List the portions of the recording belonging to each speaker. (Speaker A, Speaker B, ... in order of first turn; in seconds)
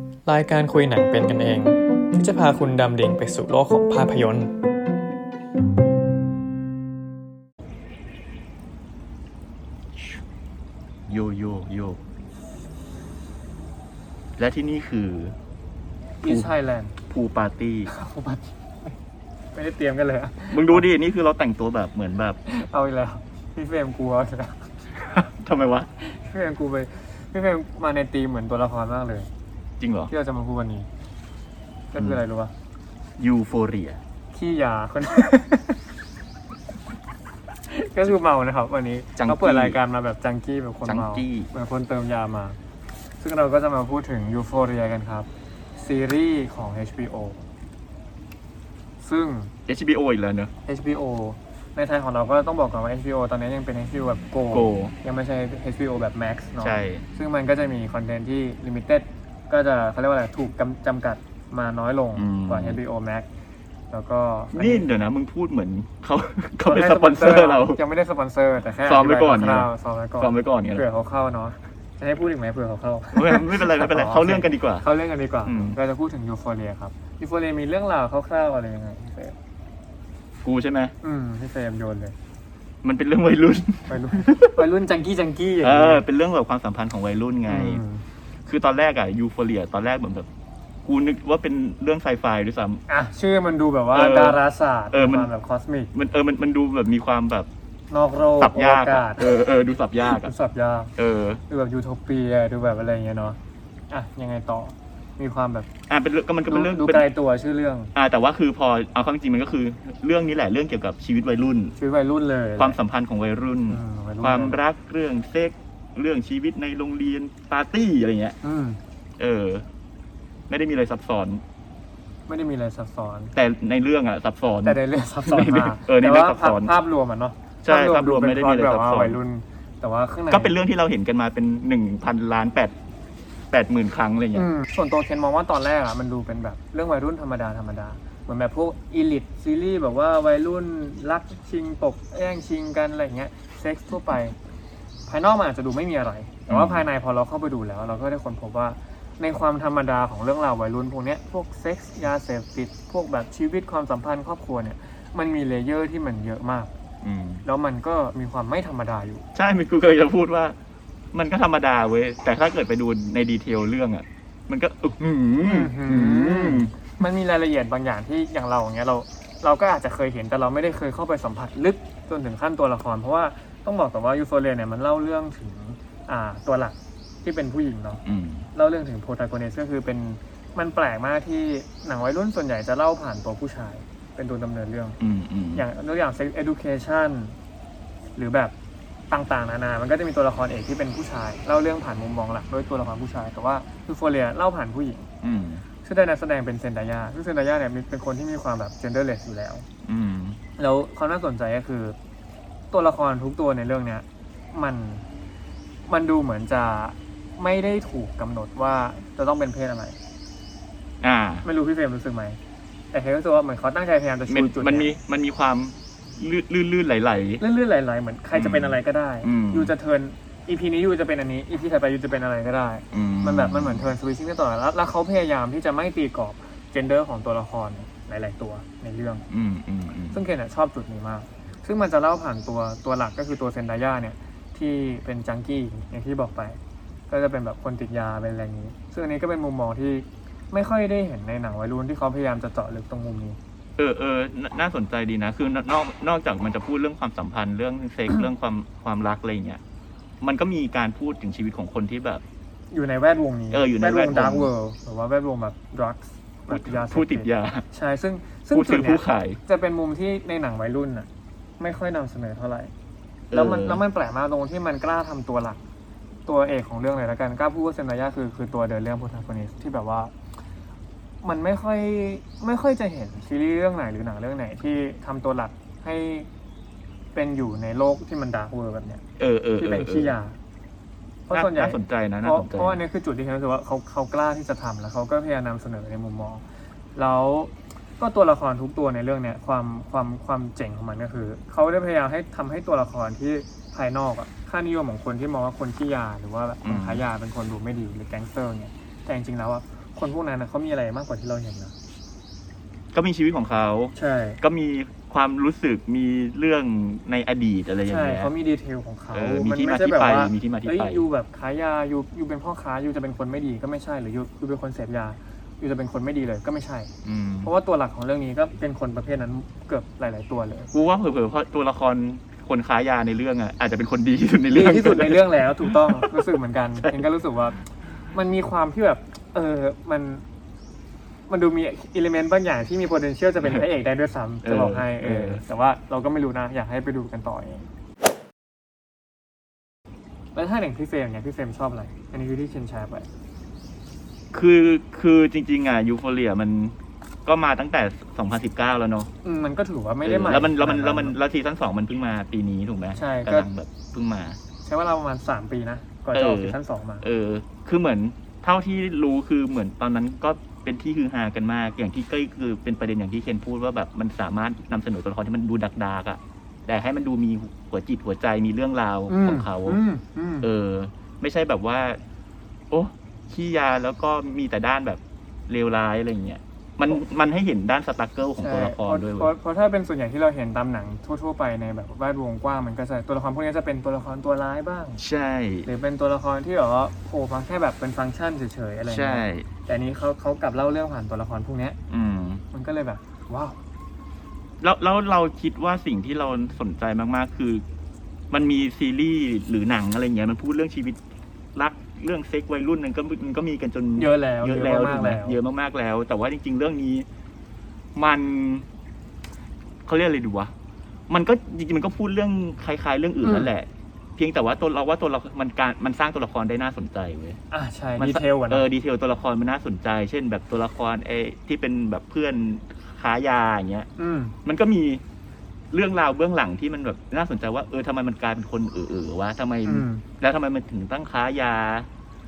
Speaker A: 0.3-4.5, 16.2-16.9, 17.9-18.9, 19.5-20.9, 22.5-24.7, 26.0-29.3, 30.1-30.9, 31.9-32.5, 34.3-35.8, 37.7-42.6, 43.2-47.4, 49.0-49.5, 50.7-63.3, 63.9-64.9, 66.7-79.3, 81.0-82.2, 83.9-86.0, 87.5-88.0, 92.9-95.9, 97.9-99.3, 100.0-100.9, 101.5-103.4, 103.9-105.7, 106.5-107.9, 111.8-112.8, 113.7-114.6, 118.4-118.8, 122.3-123.3, 124.6-130.6, 134.3-144.4, 145.1-156.7, 157.4-159.2, 165.4-178.0, 178.6-185.0, 185.6-187.4, 188.2-188.5, 189.1-195.1, 195.8-199.7, 200.6-202.0, 202.7-205.1, 205.9-210.0, 211.4-212.4, 212.9-214.9, 217.4-229.2, 230.1-236.6, 237.1-243.4, 252.7-262.7, 263.3-265.6, 266.3-270.1, 271.2-276.3, 277.1-279.0, 279.6-280.4, 281.3-286.4, 287.0-301.8, 304.0-304.4, 307.9-316.9, 317.4-320.7, 324.5-327.6, 328.1-330.2, 331.3-337.7, 340.4-343.1, 349.2-351.2, 352.9-353.5, 354.6-357.1, 369.1-370.5, 378.4-385.0, 385.6-391.8, 392.5-393.6, 404.0-405.4, 413.2-413.5, 417.5-418.7, 424.0-424.4, 429.7-430.1
Speaker B: 11.1-12.0, 14.4-15.4, 16.3-16.5, 17.1-17.9, 20.5-22.4, 25.0-25.9, 29.8-30.1, 32.0-32.2, 33.2-34.0, 39.2-39.8, 40.9-41.5, 49.7-50.5, 54.5-54.9, 56.6-57.0, 62.1-62.8, 64.5-67.8, 68.9-70.8, 73.1-74.8, 75.5-75.8, 80.4-80.9, 82.8-84.7, 85.6-87.8, 88.5-90.3, 90.8-92.8, 93.9-95.3, 95.9-97.5, 98.4-100.3, 101.0-101.4, 105.9-107.1, 108.0-111.8, 112.6-118.4, 119.2-119.7, 120.5-121.4, 123.3-126.7, 127.6-129.2, 130.3-132.7, 133.5-134.5, 146.5-146.9, 157.0-157.4, 159.3-160.6, 161.1-166.7, 178.0-178.5, 185.0-185.7, 195.2-195.6, 199.8-200.4, 211.0-211.4, 214.3-217.4, 218.3-219.7, 222.9-223.9, 229.3-230.2, 243.8-249.6, 250.2-252.2, 253.5-254.5, 256.5-257.6, 258.5-259.4, 263.3-263.8, 279.2-280.1, 281.3-282.8, 296.6-297.0, 302.9-308.3, 309.1-311.1, 317.0-317.5, 320.7-326.3, 334.4-335.4, 344.3-349.1, 350.1-354.4, 356.1-369.8, 370.4-372.0, 372.7-379.3, 385.0-385.7, 388.9-389.5, 391.9-392.4, 394.6-397.6, 398.3-401.0, 401.6-407.1, 408.0-408.7, 409.9-410.5, 411.1-417.4, 418.0-423.9, 424.4-425.0, 425.7-431.9